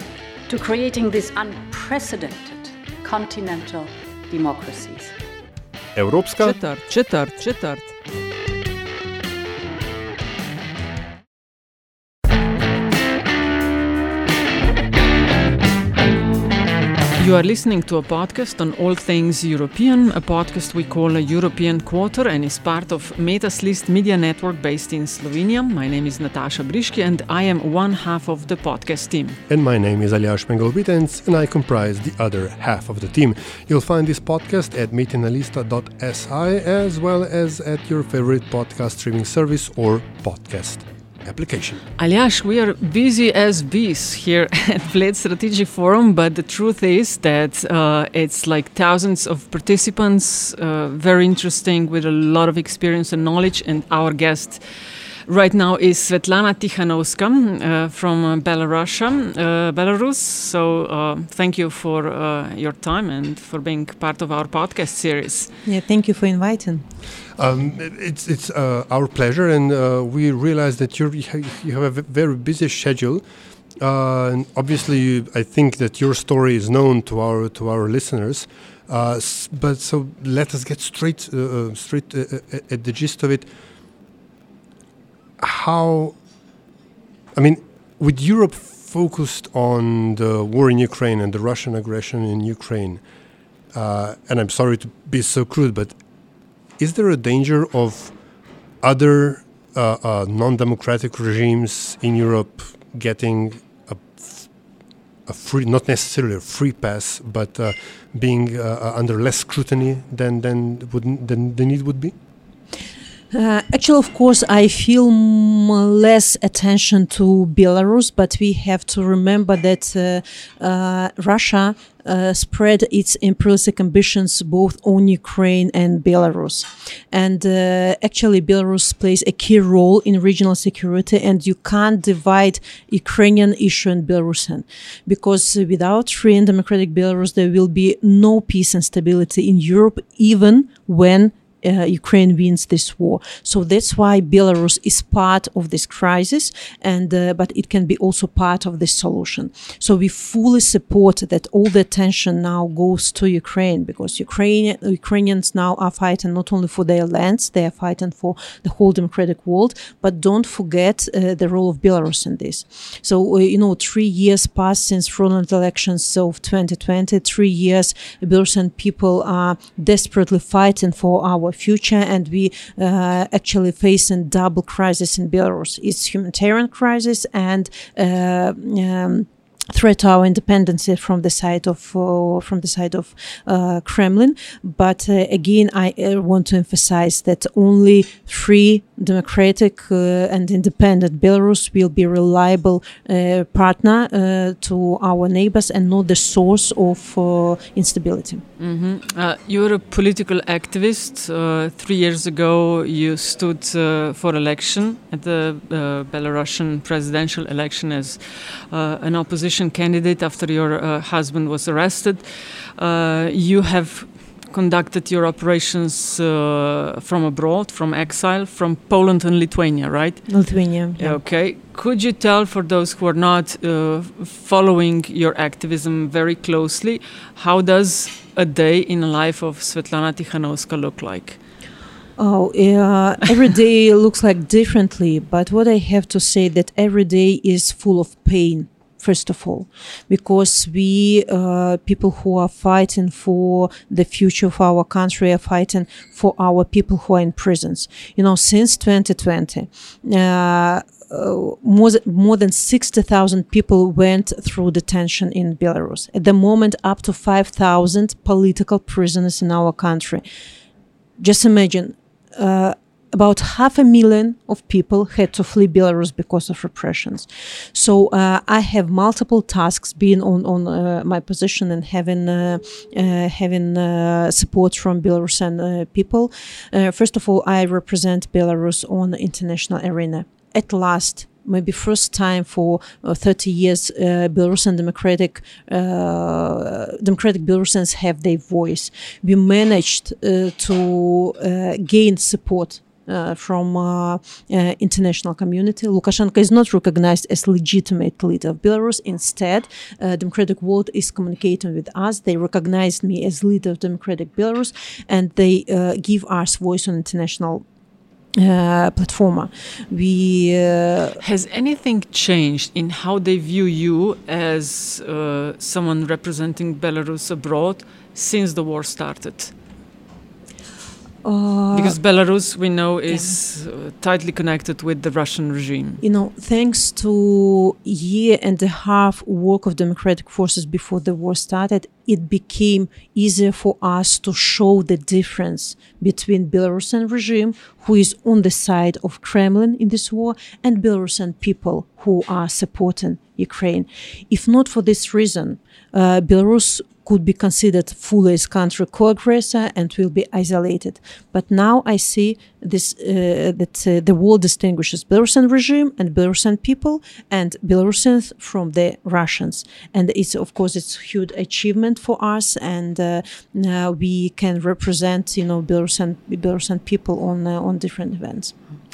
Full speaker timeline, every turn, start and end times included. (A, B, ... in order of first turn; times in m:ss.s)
0:00.5-0:05.1 A
0:06.0-0:06.6 B
0:06.4-0:07.9 C
0:17.2-0:29.4 C
0:29.5-0:41.8 B
0:42.0-0:54.6 C
0:55.3-1:05.5 C
1:05.6-1:06.8 D
1:07.4-1:13.2 B
1:13.8-1:23.5 B
1:25.4-1:26.2 B
1:27.4-1:33.0 B
1:33.7-1:36.0 B
1:36.8-1:38.2 B
1:38.8-1:44.5 B
1:45.3-1:52.1 B
1:53.3-3:18.4 D
3:18.6-3:32.2 C
3:32.8-3:51.4 C
3:40.3-3:41.2 D
3:52.2-4:20.2 D
4:21.2-5:07.6 D
5:08.4-5:11.2 D
5:11.2-5:19.5 C
5:21.2-5:22.0 D
5:21.7-5:26.0 C
5:26.0-6:08.5 D